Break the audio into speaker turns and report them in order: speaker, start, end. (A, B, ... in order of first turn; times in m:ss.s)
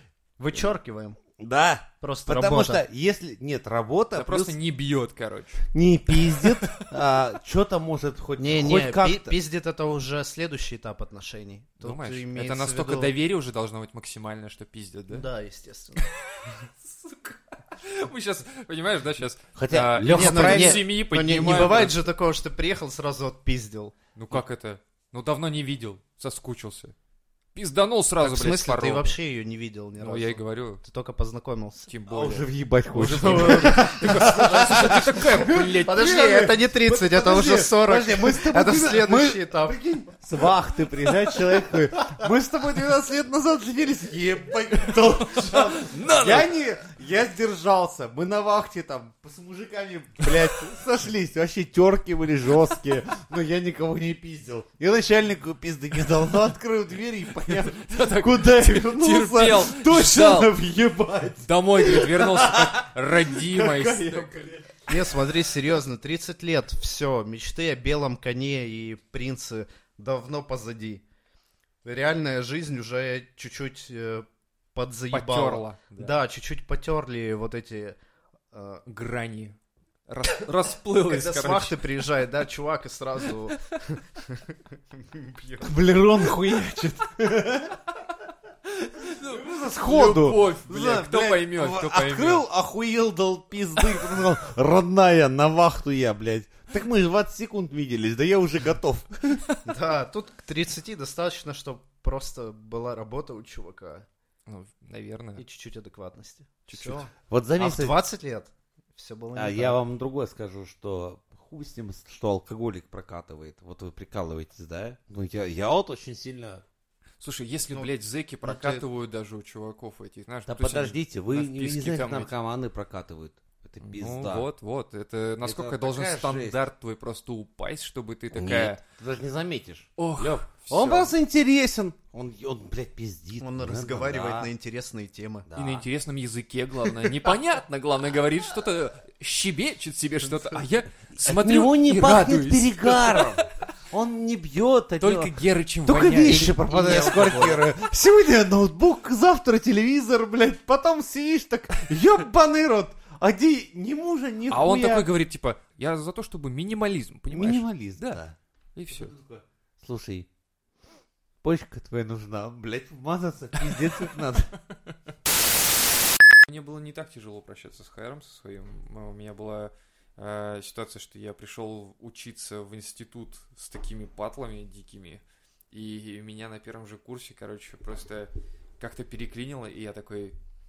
0:00.4-0:01.2 A
0:01.4-0:04.5 B
0:02.0-0:02.8 A
0:04.1-0:05.7 C
0:05.7-0:09.3 B
0:06.3-0:06.7 C
0:08.4-0:13.1 A
0:11.8-0:15.2 C
0:15.1-0:16.1 A
0:16.1-0:22.0 C
0:19.5-0:20.8 B
0:20.0-0:23.9 A
0:24.1-0:26.9 C
0:27.5-0:29.2 C
0:28.2-0:31.9 A
0:30.0-0:30.8 C
0:31.9-0:36.1 C
0:32.1-1:04.9 B
0:33.1-0:34.2 A
0:35.8-0:39.8 A
0:41.3-0:41.8 A
0:45.3-0:46.5 C
0:57.6-1:00.5 C
1:01.4-1:04.5 C
1:04.9-1:11.0 A
1:11.8-1:18.0 A
1:15.1-1:16.1 C
1:18.5-1:18.8 A
1:18.9-1:19.6 C
1:20.1-1:21.9 C
1:21.0-1:25.8 A
1:25.6-1:27.8 B
1:28.8-1:32.4 C
1:29.2-1:39.4 B
1:39.6-1:44.0 A
1:44.5-1:45.4 C
1:45.4-1:49.8 A
1:46.7-1:47.1 C
1:47.3-1:47.9 B
1:49.4-1:56.6 B
1:57.2-2:02.3 C
1:58.4-1:58.8 A
2:00.5-2:04.4 B
2:03.8-2:08.8 C
2:05.4-2:06.6 B
2:08.3-2:14.5 B
2:10.0-2:11.1 C
2:13.4-2:15.5 A
2:15.4-2:15.8 B
2:15.6-2:23.3 C
2:21.1-2:25.3 B
2:25.0-2:27.6 C
2:25.8-2:35.0 B
2:34.5-2:38.2 C
2:37.3-2:38.4 B
2:38.7-2:39.1 C
2:38.9-2:40.3 B
2:41.4-2:44.5 B
2:46.4-3:00.3 C